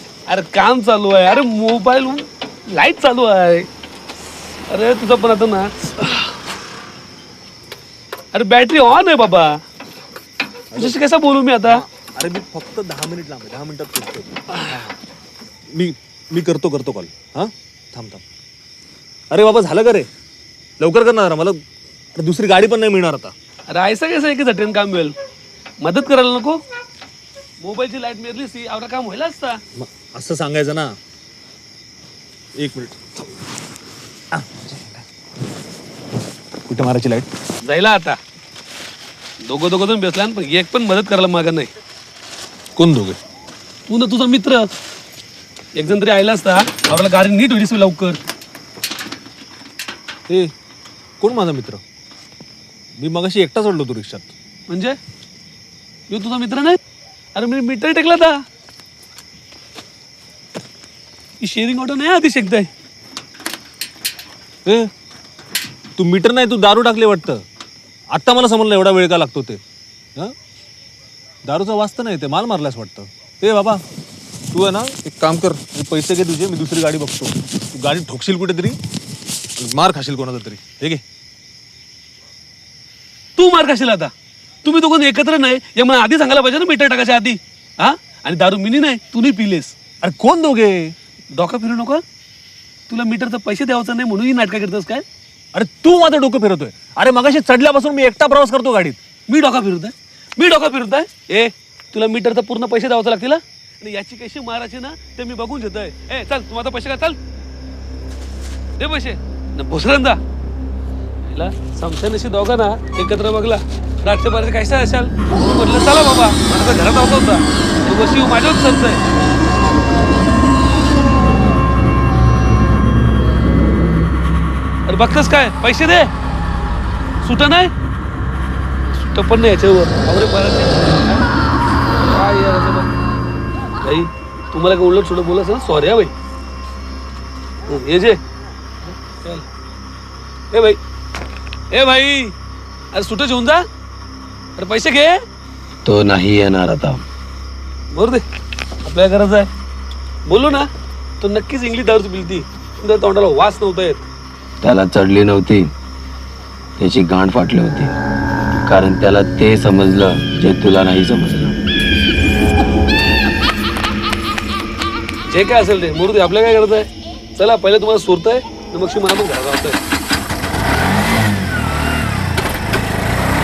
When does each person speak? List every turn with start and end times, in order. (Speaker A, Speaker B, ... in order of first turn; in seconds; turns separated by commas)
Speaker A: 0.3-3.7, Speaker A: 4.7-6.3, Speaker A: 8.3-9.6, Speaker B: 10.7-11.0, Speaker A: 10.7-11.8, Speaker B: 11.6-15.0, Speaker B: 15.7-18.2, Speaker B: 19.3-20.1, Speaker B: 20.8-21.6, Speaker B: 22.1-23.3, Speaker A: 23.7-25.1, Speaker A: 25.8-26.6, Speaker A: 27.6-29.6, Speaker B: 29.7-30.9, Speaker B: 32.5-33.0, Speaker B: 34.3-35.0, Speaker B: 36.7-37.3, Speaker A: 37.6-38.2, Speaker A: 39.4-41.7, Speaker B: 42.8-43.2, Speaker A: 43.9-44.7, Speaker A: 45.7-48.2, Speaker B: 51.2-51.8, Speaker B: 53.0-54.3, Speaker A: 54.7-55.0, Speaker A: 56.1-56.8, Speaker A: 57.3-58.4, Speaker A: 61.4-62.7, Speaker B: 64.6-64.9, Speaker B: 66.0-67.4, Speaker B: 68.1-69.6, Speaker B: 71.5-73.8, Speaker B: 74.5-78.8, Speaker B: 79.5-81.0, Speaker A: 83.3-84.1, Speaker A: 84.6-89.7, Speaker B: 90.0-90.9, Speaker A: 91.3-92.0, Speaker A: 92.9-95.0, Speaker B: 95.5-99.0, Speaker A: 99.3-107.2, Speaker A: 108.8-110.2, Speaker A: 111.2-119.0, Speaker A: 124.8-126.1, Speaker A: 127.2-127.7, Speaker A: 128.8-131.2, Speaker A: 131.8-132.9, Speaker A: 133.8-136.1, Speaker A: 137.6-138.2, Speaker A: 138.8-139.5, Speaker A: 140.5-140.8, Speaker A: 141.7-142.3, Speaker A: 142.9-143.6, Speaker A: 144.6-145.2, Speaker C: 145.8-147.0, Speaker A: 147.9-148.2, Speaker A: 148.8-149.5, Speaker A: 150.2-150.7, Speaker A: 151.2-154.0, Speaker C: 154.6-155.7, Speaker C: 156.8-157.9, Speaker C: 158.6-161.6, Speaker A: 165.3-169.8